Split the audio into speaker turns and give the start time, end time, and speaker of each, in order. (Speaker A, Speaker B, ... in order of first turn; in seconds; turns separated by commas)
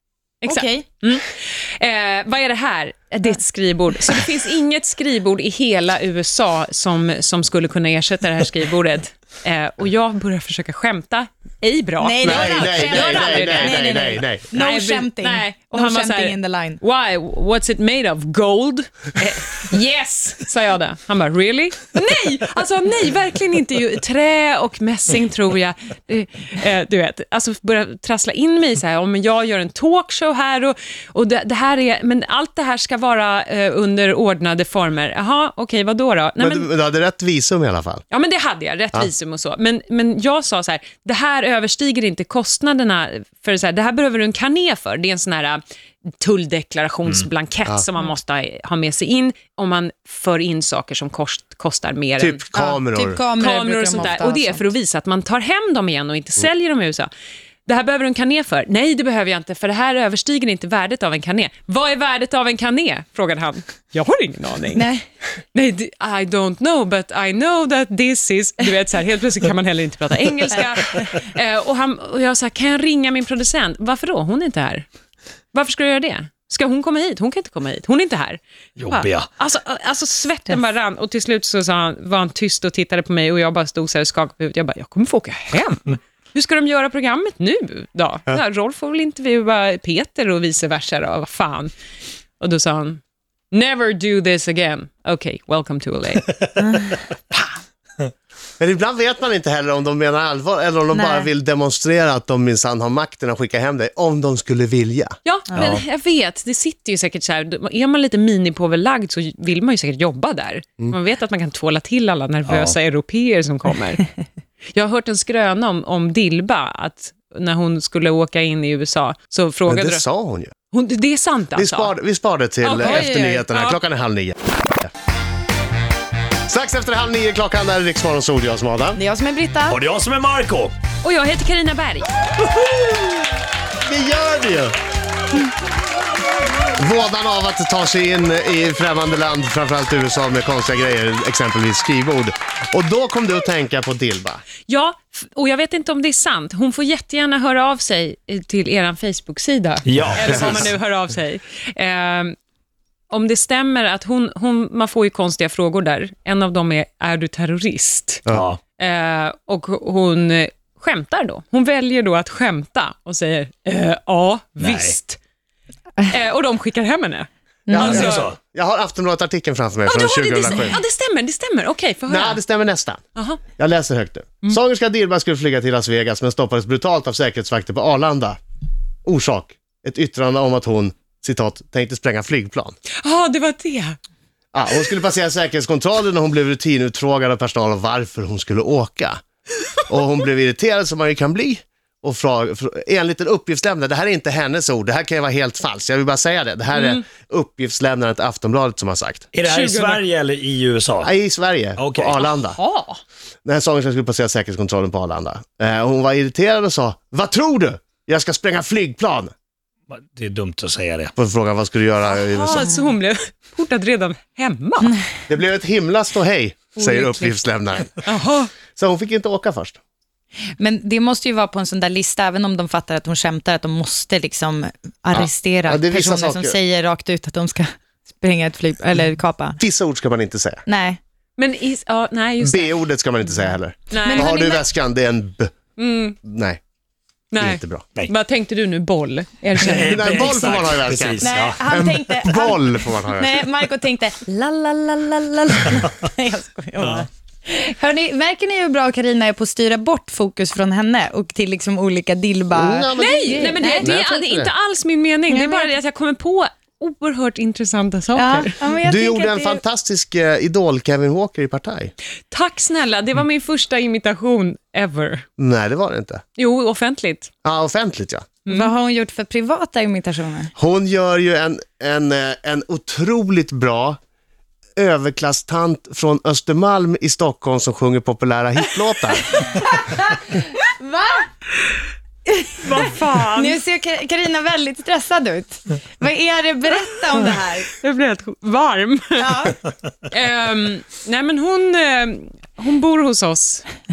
Speaker A: 0.4-13.8, Speaker B: 0.5-0.8, Speaker B: 12.0-16.8, Speaker C: 12.2-14.5, Speaker A: 14.5-36.7, Speaker C: 36.4-38.0, Speaker A: 38.1-52.4, Speaker C: 52.2-53.2, Speaker B: 52.5-54.7, Speaker A: 53.4-57.1, Speaker A: 57.7-64.8, Speaker B: 64.8-65.0, Speaker A: 65.5-74.9, Speaker A: 75.5-91.7, Speaker D: 78.8-79.3, Speaker A: 92.4-96.3, Speaker A: 97.3-97.6, Speaker C: 98.6-105.2, Speaker B: 100.9-101.3, Speaker A: 105.2-114.1, Speaker D: 105.5-105.8, Speaker D: 112.5-112.8, Speaker A: 114.7-120.0, Speaker C: 119.7-120.5, Speaker A: 120.7-122.0, Speaker C: 121.5-124.9, Speaker A: 122.6-123.8, Speaker B: 122.8-123.4, Speaker C: 126.5-129.0, Speaker B: 129.0-129.8, Speaker D: 129.7-130.7, Speaker A: 131.0-132.1, Speaker C: 133.8-134.8, Speaker C: 136.8-144.4, Speaker A: 144.7-152.4, Speaker D: 149.8-150.7, Speaker A: 153.1-158.2, Speaker D: 158.3-158.6, Speaker A: 158.8-165.2, Speaker D: 164.6-165.0, Speaker A: 166.1-167.3, Speaker B: 167.7-168.0, Speaker C: 167.7-170.8, Speaker D: 167.8-168.4, Speaker A: 167.8-168.3, Speaker A: 169.8-172.4, Speaker C: 172.1-173.0, Speaker A: 173.2-173.4, Speaker C: 173.6-178.4, Speaker C: 179.1-182.7, Speaker A: 183.0-184.0, Speaker C: 184.5-189.2, Speaker C: 189.9-199.2, Speaker A: 196.8-197.0, Speaker D: 199.3-201.1, Speaker A: 199.4-200.0, Speaker C: 201.0-202.6, Speaker D: 201.8-202.2, Speaker A: 202.2-203.0, Speaker C: 203.4-209.3, Speaker D: 209.9-211.1, Speaker C: 211.2-212.7, Speaker A: 212.1-215.0, Speaker C: 215.3-218.0, Speaker A: 216.8-217.4, Speaker A: 218.0-218.5, Speaker C: 218.8-219.8, Speaker B: 220.6-229.6, Speaker C: 225.1-226.6, Speaker C: 229.6-230.6, Speaker B: 230.7-231.0, Speaker A: 231.4-232.8, Speaker C: 232.4-235.5, Speaker A: 233.9-234.6, Speaker B: 234.0-234.6, Speaker A: 235.8-236.2, Speaker C: 236.2-236.6, Speaker A: 237.3-240.4, Speaker C: 237.4-237.8, Speaker D: 239.6-241.7, Speaker C: 239.8-243.5, Speaker B: 241.2-253.9, Speaker D: 246.8-247.1, Speaker C: 252.5-254.5, Speaker A: 252.9-258.6, Speaker B: 255.3-255.7, Speaker B: 258.2-259.6, Speaker C: 258.8-261.9, Speaker A: 262.3-265.2, Speaker C: 265.4-266.2, Speaker A: 266.4-267.3, Speaker C: 267.4-268.3, Speaker B: 268.5-270.5, Speaker C: 270.6-274.0, Speaker C: 274.8-279.4, Speaker B: 279.4-281.2, Speaker A: 282.6-283.6, Speaker B: 283.3-287.7, Speaker A: 287.7-289.3, Speaker B: 289.2-289.6, Speaker A: 290.1-293.7